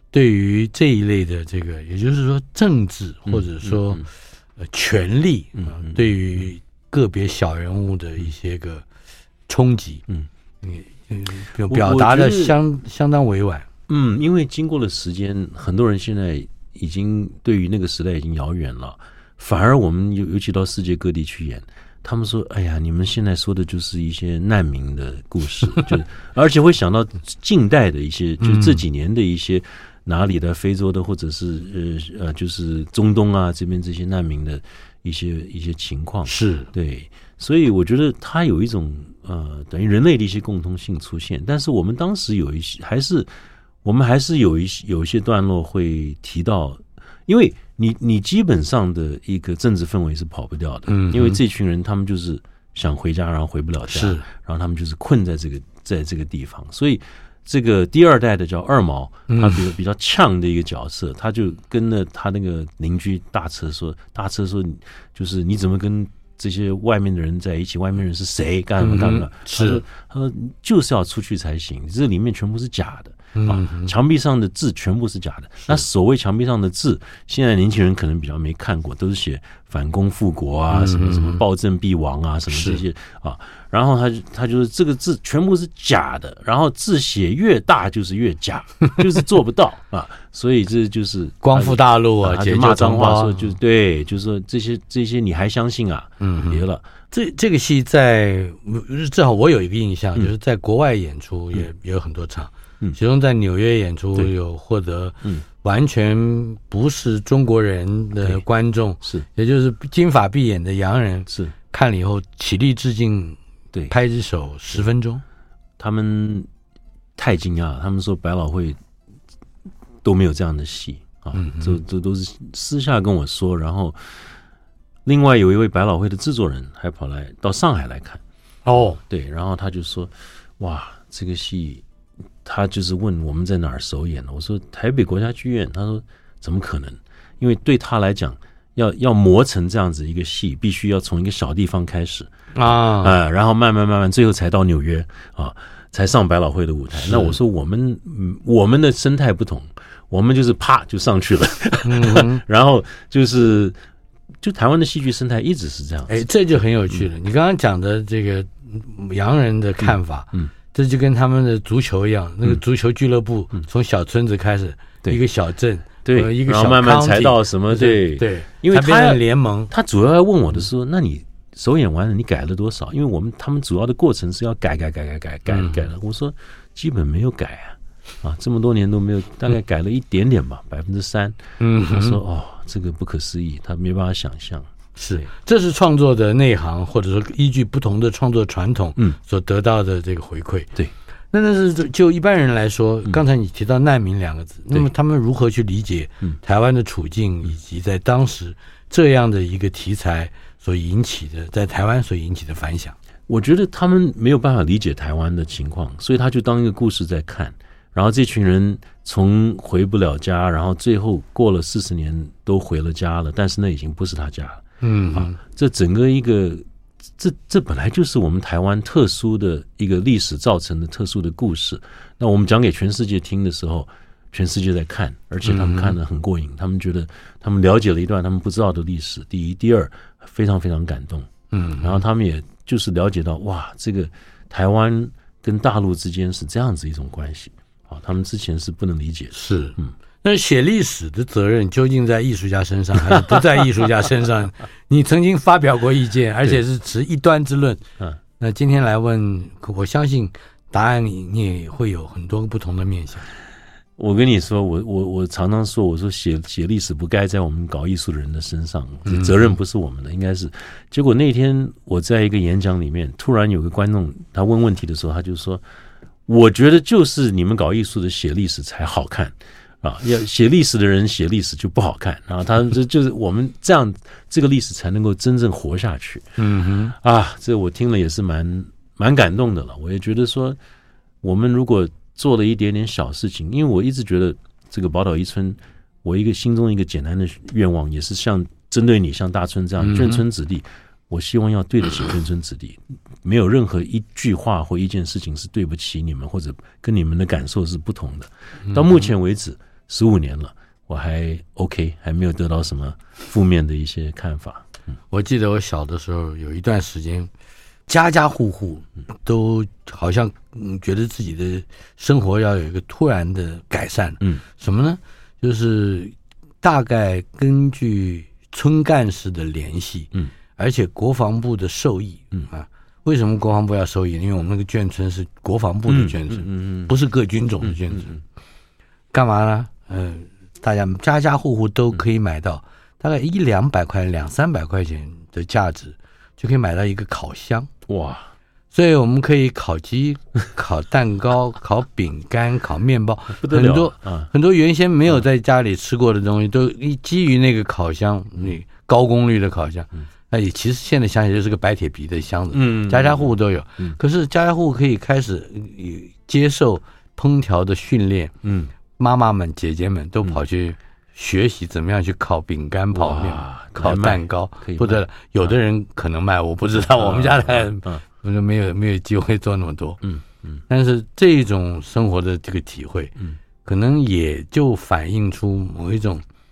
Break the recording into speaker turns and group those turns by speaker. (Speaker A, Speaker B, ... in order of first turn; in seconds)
Speaker A: 0.1-4.1, 4.6-8.8, 9.5-10.0, 10.6-13.7, 28.4-28.8, 36.2-36.7, 50.9-51.4, 53.9-54.2, 59.3-59.6, 68.8-69.8, 73.3-73.9, 80.7-81.4, 82.5-82.8, 91.4-93.5, 96.2-113.4, 113.9-115.2, 121.3-121.8, 128.7-129.0, 142.5-143.1, 147.0-147.3, 151.8-152.4, 156.1-169.7, 175.5-175.9, 181.6-182.2, 185.0-190.7, 191.3-202.9, 214.8-215.4, 225.4-225.9, 231.5-232.0, 239.3-247.8, 248.4-253.3, 259.1-259.4, 276.4-276.9, 289.8-290.2, 298.7-299.0, 305.1-307.3, 307.9-328.1, 329.1-337.7, 338.7-358.3, 359.0-370.0, 370.7-376.2
Speaker B: 3.3-4.0, 5.6-6.2, 11.7-12.6, 13.9-43.3, 43.8-96.9, 111.3-111.5, 115.8-116.5, 117.2-118.8, 120.0-124.1, 125.0-128.2, 129.1-131.8, 132.4-153.8, 154.4-156.2, 159.8-160.5, 166.0-185.2, 203.3-214.6, 215.1-216.6, 217.2-239.9, 243.1-243.4, 254.0-265.6, 266.3-276.3, 276.9-280.6, 281.2-304.7, 325.9-326.9, 327.6-328.2, 337.9-338.3, 343.4-344.3, 352.5-354.0, 358.4-358.7, 362.9-365.5, 366.7-368.0, 370.0-370.6